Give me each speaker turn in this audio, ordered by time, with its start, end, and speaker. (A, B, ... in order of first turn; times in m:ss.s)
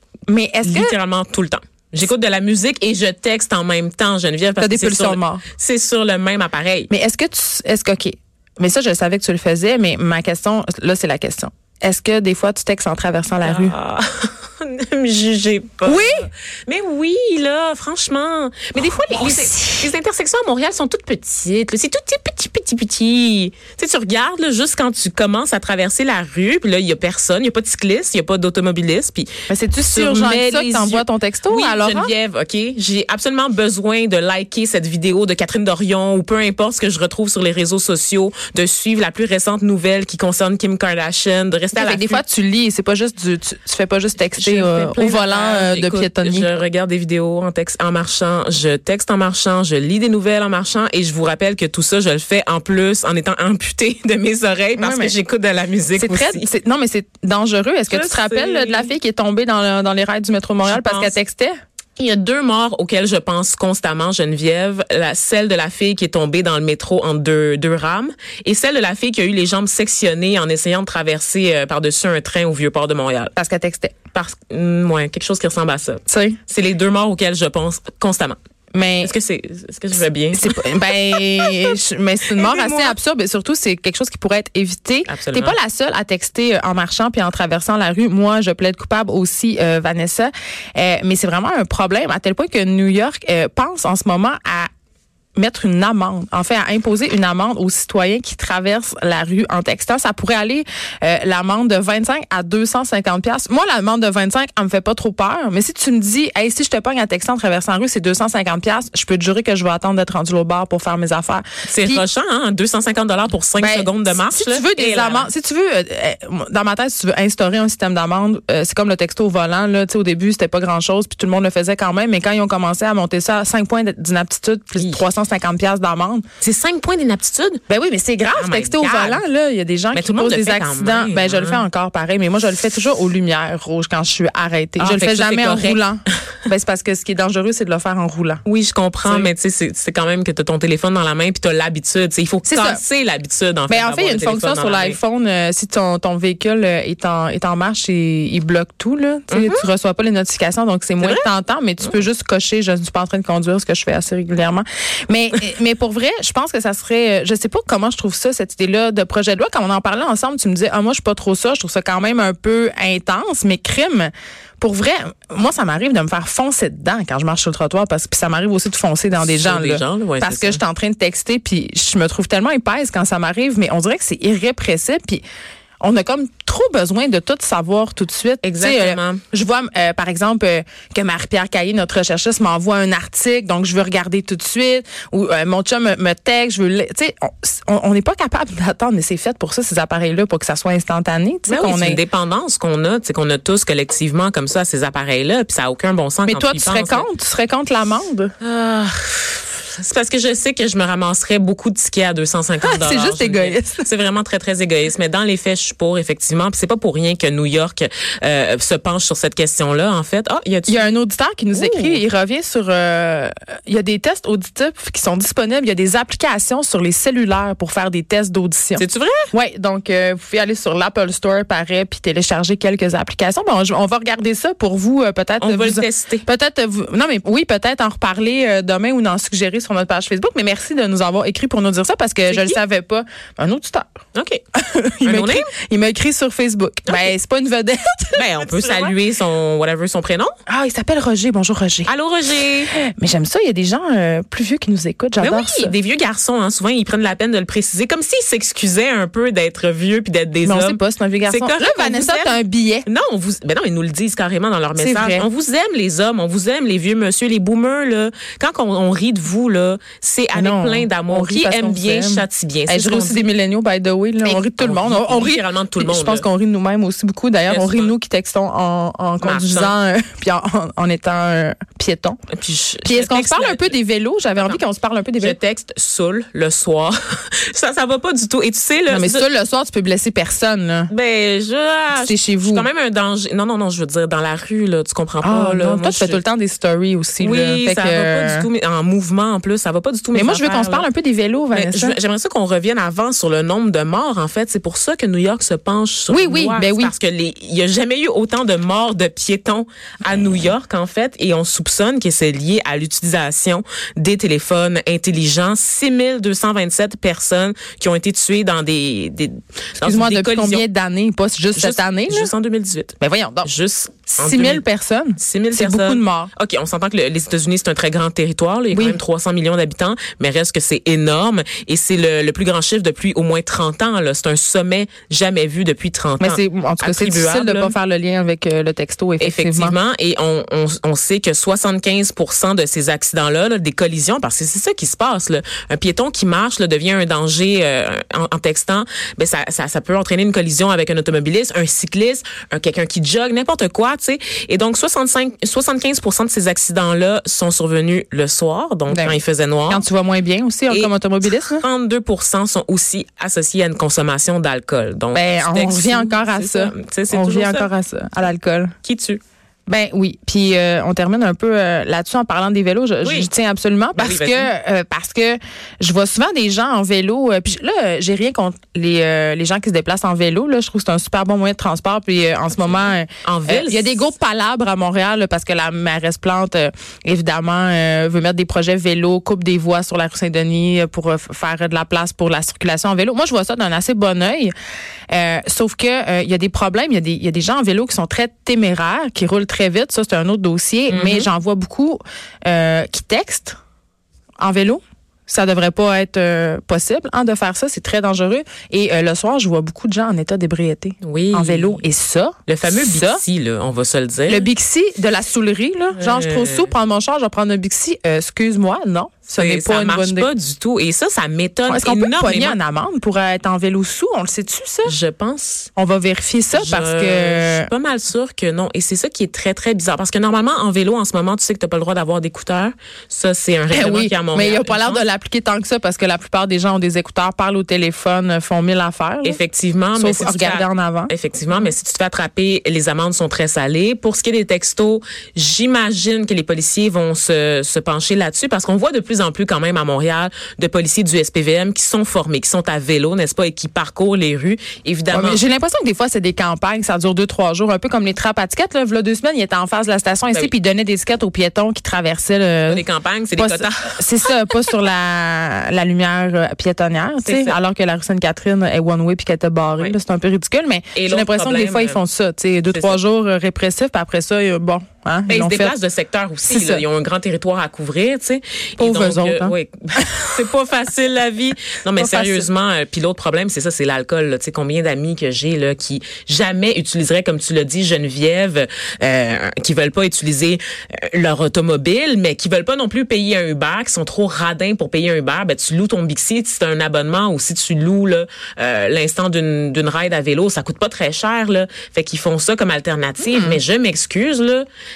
0:00.3-0:00.9 A
0:00.6-0:06.9 B
0:04.6-0:05.4 A
0:06.9-0:13.7 A
0:13.4-0:42.2 B
0:15.8-0:16.3 A
0:18.8-0:19.9 A
0:29.5-0:32.1 A
0:41.7-0:46.5 A
0:44.4-0:56.4 B
0:54.8-0:55.1 A
0:56.0-1:01.6 A
0:57.9-0:58.9 B
1:00.6-1:01.1 B
1:02.0-1:13.3 B
1:13.4-1:13.9 A
1:14.1-1:18.4 B
1:16.1-1:16.4 A
1:18.7-1:19.1 A
1:19.0-1:21.7 B
1:20.3-1:34.7 A
1:22.4-1:23.0 B
1:25.1-1:25.6 B
1:35.4-1:52.0 A
1:51.7-1:55.3 B
1:53.6-2:06.3 A
2:06.4-2:07.6 B
2:07.7-2:18.4 A
2:08.4-2:09.2 B
2:09.9-2:11.6 B
2:14.8-2:15.8 B
2:18.4-2:25.0 B
2:19.0-2:19.3 A
2:22.5-2:22.8 A
2:23.7-2:55.2 A
2:29.3-2:29.6 B
2:31.0-2:31.3 B
2:49.2-2:50.6 B
2:55.8-3:12.0 A
2:58.4-2:59.2 B
3:11.5-3:17.0 B
3:16.3-3:18.3 A
3:18.4-3:30.9 B
3:22.6-3:23.9 A
3:30.7-3:54.0 A
3:31.5-3:32.0 B
3:38.8-3:39.3 B
3:45.4-3:46.2 B
3:52.3-3:52.6 B
3:54.1-3:54.4 B
3:54.5-3:58.9 A
3:55.0-3:55.5 B
3:58.2-4:00.4 B
4:00.5-4:01.9 A
4:01.9-4:02.7 B
4:02.7-4:05.7 A
4:05.2-4:23.2 B
4:10.4-4:12.8 A
4:14.8-4:15.2 A
4:20.3-4:32.2 A
4:24.2-4:26.2 B
4:27.5-4:27.9 B
4:29.2-4:29.7 B
4:32.3-4:33.7 B
4:32.8-4:35.4 A
4:35.2-4:39.2 B
4:38.9-4:40.9 A
4:40.9-4:46.2 B
4:42.0-4:42.6 A
4:45.2-4:48.5 A
4:47.2-4:50.8 B
4:50.1-4:51.9 A
4:51.5-5:10.6 B
4:56.1-4:56.9 A
5:09.8-5:12.3 A
5:11.6-5:14.6 B
5:13.0-5:13.5 A
5:14.1-5:16.3 A
5:15.2-5:27.7 B
5:18.7-5:19.0 A
5:26.2-5:29.7 A
5:29.2-5:49.8 B
5:48.9-5:49.2 A
5:49.7-5:51.6 A
5:50.7-5:57.7 B
5:55.1-5:58.7 A
5:58.8-5:59.2 B
5:59.7-6:24.5 A
6:03.0-6:03.3 B
6:04.0-6:04.5 B
6:12.6-6:14.0 B
6:25.1-6:33.6 A
6:30.9-6:31.3 B
6:34.4-6:43.2 A
6:41.0-6:41.8 B
6:42.5-6:44.5 B
6:44.3-6:50.3 A
6:46.0-6:46.7 B
6:49.3-6:52.6 B
6:51.7-6:54.9 A
6:54.8-6:55.7 B
6:55.8-6:57.7 A
6:56.5-7:05.0 B
7:03.7-7:09.4 A
7:09.2-7:25.4 B
7:10.0-7:11.1 A
7:25.1-7:32.8 A
7:32.7-7:34.0 B
7:33.4-7:45.7 A
7:37.2-7:37.6 B
7:40.9-7:42.0 B
7:42.7-7:43.0 B
7:45.3-8:14.6 B
7:46.5-7:46.8 A
7:48.8-7:50.3 A
7:52.0-7:52.5 A
8:13.2-8:13.6 A